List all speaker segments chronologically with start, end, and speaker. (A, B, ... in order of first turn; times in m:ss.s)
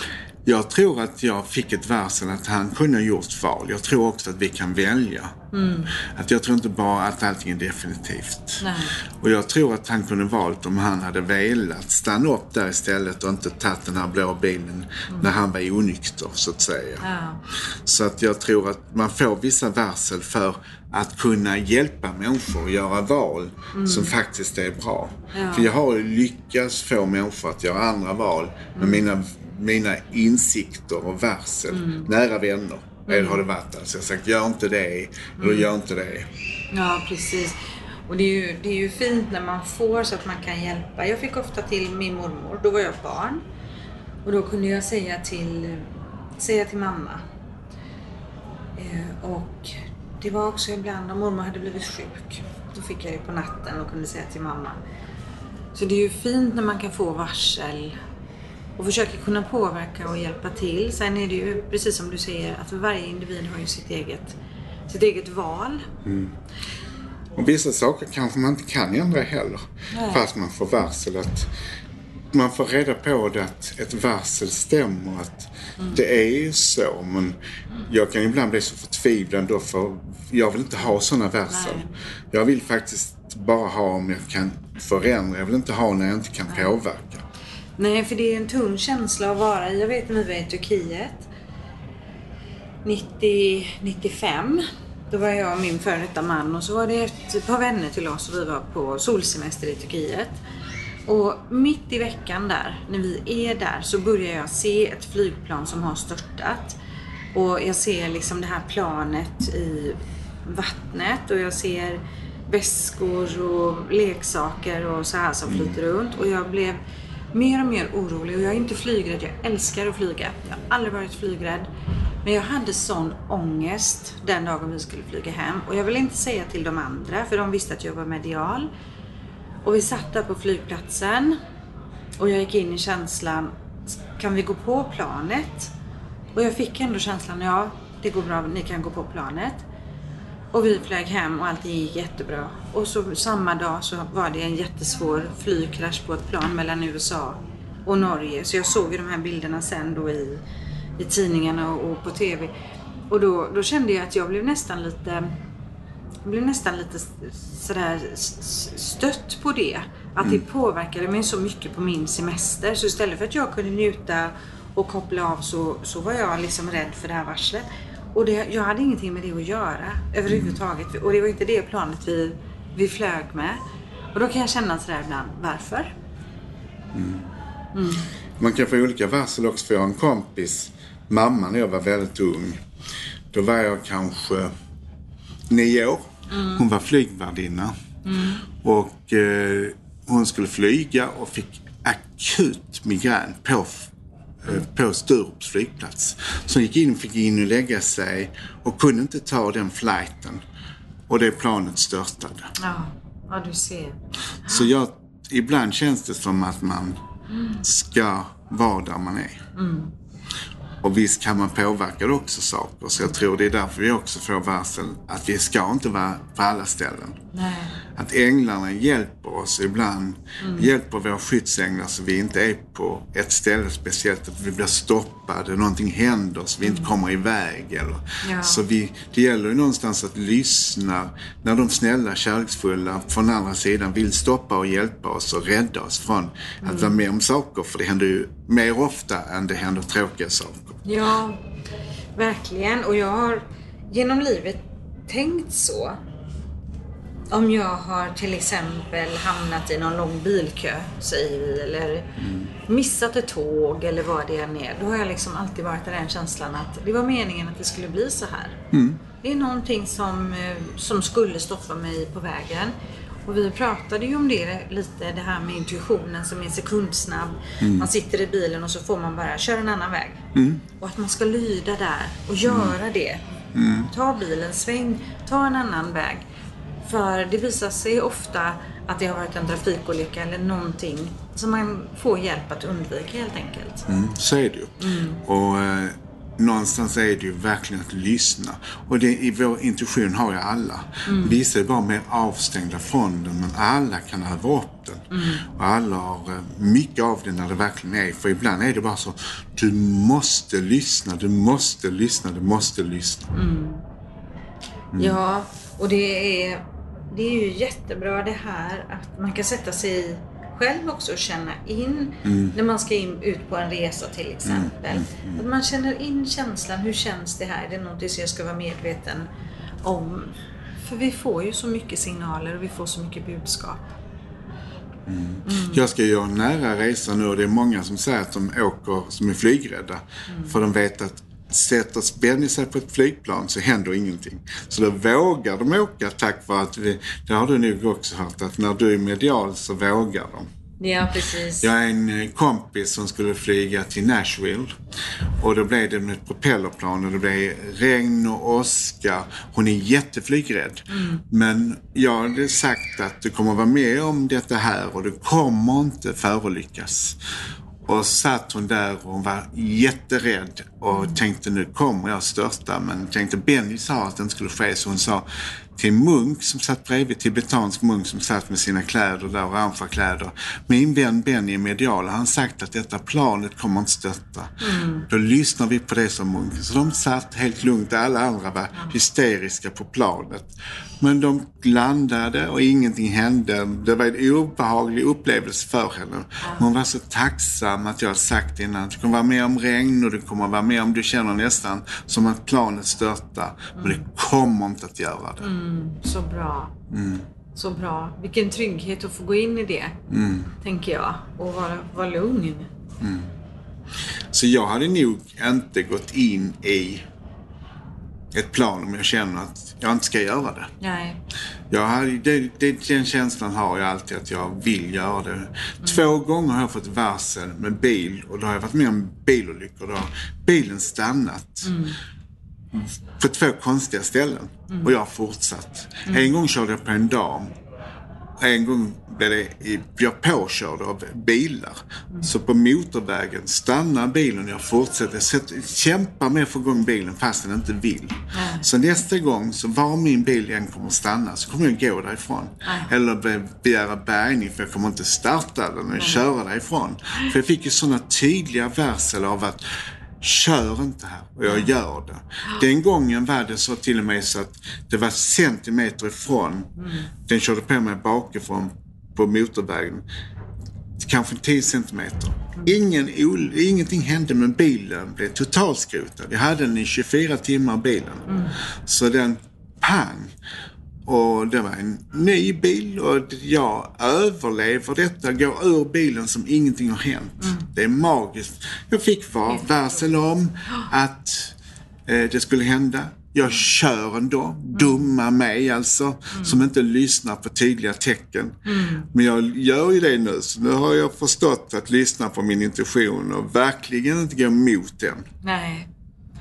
0:00.4-0:05.4 A
0:05.5-0:06.0 B
0:06.0-0:17.0 A
0:08.6-0:09.0 B
0:17.0-0:17.4 B
0:17.7-0:36.3 A
0:23.7-0:24.1 B
0:25.3-0:25.7 B
0:28.8-0:29.1 B
0:31.7-0:32.1 B
0:33.1-0:33.4 B
0:35.4-0:35.7 B
0:36.7-0:43.4 B
0:44.2-0:47.2 B
0:48.8-0:54.8 B
0:55.7-0:58.0 B
0:58.8-1:04.4 B
1:04.9-1:05.9 B
1:06.0-1:06.4 A
1:07.4-1:11.5 A
1:09.9-1:10.3 B
1:12.3-1:27.2 A
1:21.5-1:22.0 B
1:26.5-1:26.8 B
1:27.8-1:31.3 B
1:32.8-1:40.4 B
1:41.1-1:46.8 B
1:47.3-1:56.8 B
1:55.5-1:55.8 A
1:57.3-2:01.7 B
2:02.2-2:08.7 B
2:09.6-2:11.4 B
2:12.2-2:15.7 B
2:16.4-2:19.6 B
2:20.5-2:30.4 B
2:31.0-2:32.5 B
2:33.1-2:35.3 B
2:36.2-2:53.6 B
2:50.3-2:50.6 A
2:54.1-2:55.9 B
2:56.9-2:57.3 A
2:57.7-2:58.1 B
2:58.4-3:02.6 A
3:03.3-3:04.5 A
3:05.5-3:07.7 A
3:06.3-3:06.6 B
3:08.0-3:08.4 B
3:08.6-3:13.9 A
3:14.4-3:20.4 A
3:21.1-3:22.5 A
3:22.6-3:24.7 B
3:24.4-3:27.0 A
3:27.3-3:27.6 B
3:27.6-3:29.4 A
3:29.5-3:29.9 B
3:30.8-3:37.2 A
3:37.3-3:37.8 B
3:37.9-4:00.8 A
3:40.4-3:40.7 B
3:46.6-3:46.9 B
3:48.2-3:48.6 B
3:56.6-3:57.0 B
4:00.8-4:01.4 B
4:02.2-4:06.0 B
4:07.3-4:18.6 B
4:12.2-4:12.5 A
4:18.7-4:19.0 A
4:19.2-4:22.7 B
4:23.3-4:30.3 B
4:27.6-4:27.9 A
4:30.4-4:30.6 A
4:30.8-4:33.2 B
4:32.5-4:32.8 A
4:33.6-4:33.9 A
4:33.9-4:36.2 B
4:36.8-4:43.9 B
4:43.9-5:03.3 A
4:44.8-4:45.2 B
4:51.1-4:51.4 B
4:55.1-4:55.5 B
5:03.3-5:03.8 B
5:04.9-5:05.2 A
5:05.0-5:19.3 B
5:12.3-5:12.5 A
5:14.5-5:15.4 A
5:19.8-5:23.8 B
5:25.1-5:40.5 A
5:25.4-5:25.8 B
5:30.3-5:30.6 B
5:40.8-5:41.7 B
5:41.6-5:44.7 A
5:45.4-5:57.2 A
5:50.9-5:51.2 B
5:57.8-6:35.5 A
6:00.9-6:01.2 B
6:14.6-6:15.1 B
6:33.8-6:34.0 B
6:35.4-6:36.8 B
6:36.9-6:37.3 A
6:37.5-6:40.0 B
6:40.1-6:40.5 A
6:40.6-6:42.7 B
6:43.0-6:43.3 A
6:44.3-6:47.1 A
6:48.3-6:50.7 A
6:50.8-6:51.2 B
6:51.7-7:01.9 A
7:01.6-7:02.0 B
7:02.7-7:07.5 A
7:06.1-7:06.3 B
7:08.4-7:29.6 A
7:18.3-7:18.7 B
7:22.6-7:22.9 B
7:30.2-7:40.0 A
7:36.8-7:37.1 B
7:41.0-7:50.3 A
7:48.3-7:48.6 B
7:51.0-8:15.3 A
7:57.4-7:57.7 B
8:04.7-8:05.0 B
8:06.3-8:06.7 B
8:08.6-8:09.1 B
8:15.4-8:15.9 B